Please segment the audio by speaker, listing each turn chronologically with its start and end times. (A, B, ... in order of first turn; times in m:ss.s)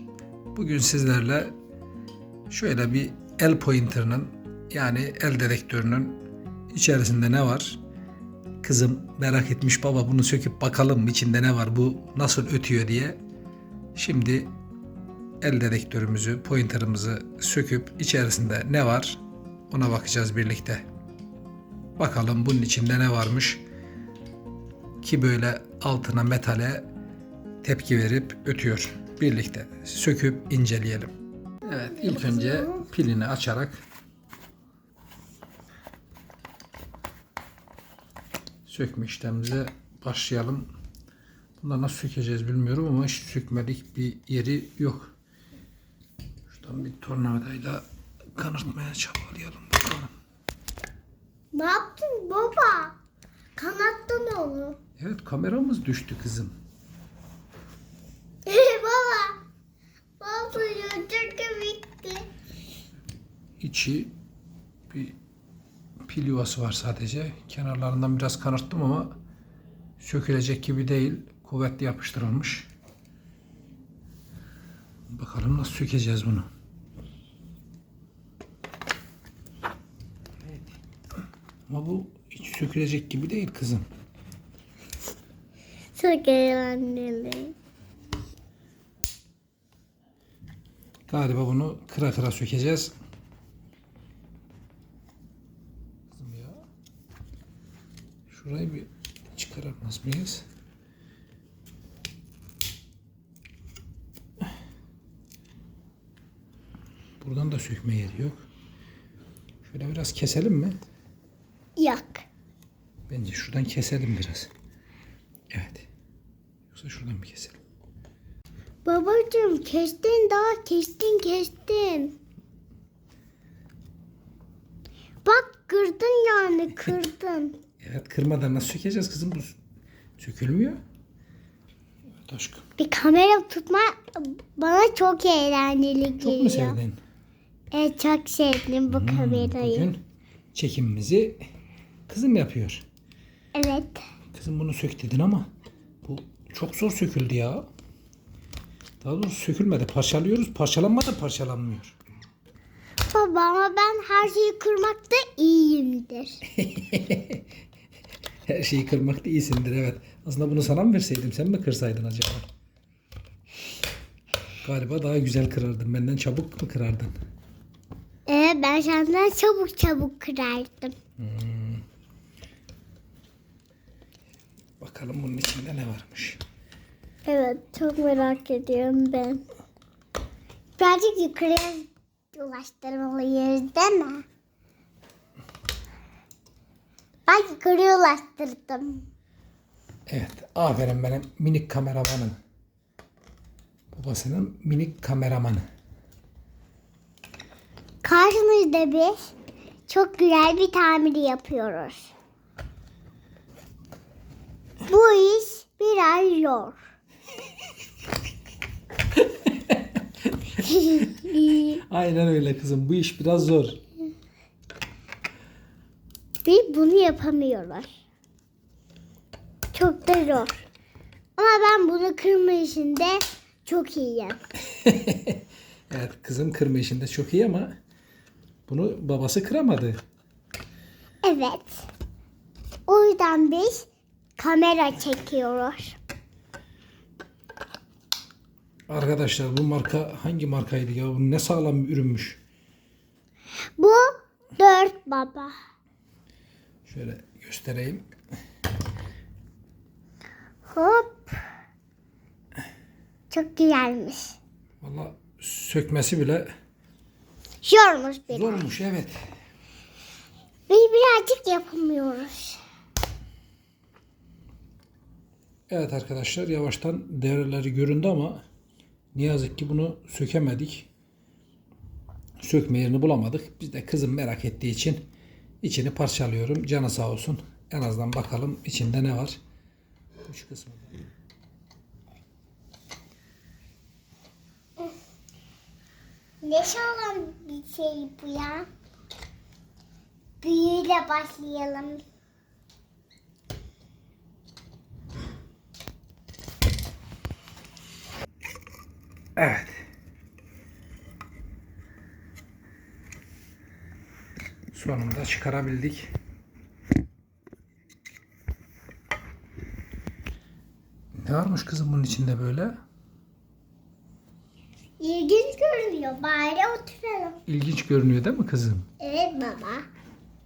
0:00.5-0:01.5 A
0:02.5-0:06.2 A
0:06.7-0:07.8 A
0:08.6-0:13.2 A
0:13.9-0:14.5 A
0:15.4-0:20.8 A
0:22.0-0:23.6 A
0:25.0-0:26.9 A
0:27.6-0:33.8 A
0:31.7-0:32.8 B
0:38.7-0:40.7 A
0:41.6-0:45.1 A
0:46.5-0:47.8 A
0:48.4-0:50.1 A
0:51.5-0:53.0 B
0:53.6-0:54.8 B
0:55.0-0:56.6 A
0:58.4-0:59.4 B
1:00.2-1:02.3 B
1:03.6-1:04.1 A
1:04.9-1:05.2 A
1:06.0-1:09.2 A
1:10.0-1:12.7 A
1:15.1-1:16.5 A
1:21.7-1:23.9 A
1:26.0-1:27.6 B
1:31.1-1:32.9 A
1:36.1-1:36.6 A
1:38.3-1:40.4 A
1:47.2-1:48.4 A
1:49.6-1:50.8 A
1:51.8-1:52.2 B
1:53.1-1:54.5 A
1:55.5-1:55.9 A
1:56.7-1:57.6 A
1:58.8-2:02.2 B
2:05.2-2:07.6 B
2:07.8-2:09.6 A
2:10.2-2:10.8 A
2:12.2-2:12.6 A
2:12.8-2:16.8 B
2:16.2-2:17.0 A
2:17.7-2:19.9 B
2:18.9-2:20.0 A
2:20.5-2:21.4 A
2:22.1-2:22.8 A
2:23.5-2:24.0 B
2:24.3-2:25.5 A
2:26.0-2:27.7 A
2:29.0-2:32.0 A
2:33.1-2:36.4 B
2:36.5-2:37.4 A
2:38.4-2:42.4 A
2:44.6-2:47.1 A
2:48.3-2:50.9 B
2:51.2-2:51.8 A
2:54.8-2:56.4 A
2:57.2-2:59.4 B
3:00.8-3:04.2 B
3:07.3-3:09.0 B
3:10.1-3:12.4 A
3:13.9-3:15.6 A
3:18.0-3:19.3 B
3:19.9-3:22.1 B
3:24.8-3:26.8 B
3:29.2-3:30.0 A
3:30.6-3:31.7 B
3:31.2-3:33.8 A
3:36.4-3:37.9 B
3:39.7-3:40.6 B
3:41.4-3:44.4 B
3:44.7-3:47.7 A
3:48.7-3:50.0 A
3:51.2-3:51.9 B
3:52.9-3:53.9 B
3:54.4-3:56.0 B
3:58.9-4:02.4 A
4:03.8-4:05.5 B
4:06.8-4:08.0 A
4:10.7-4:11.4 B
4:13.3-4:14.4 B
4:14.8-4:16.5 A
4:17.6-4:18.7 B
4:18.3-4:19.2 A
4:20.7-4:22.6 B
4:25.7-4:28.4 A
4:29.1-4:30.9 A
4:32.4-4:35.0 A
4:35.6-4:39.4 A
4:40.2-4:40.9 A
4:46.4-4:48.7 B
4:50.4-4:52.0 B
4:59.4-4:59.8 A
5:04.7-5:06.1 A
5:11.1-5:12.8 A
5:15.0-5:17.4 B
5:17.5-5:18.9 A
5:19.0-5:19.9 B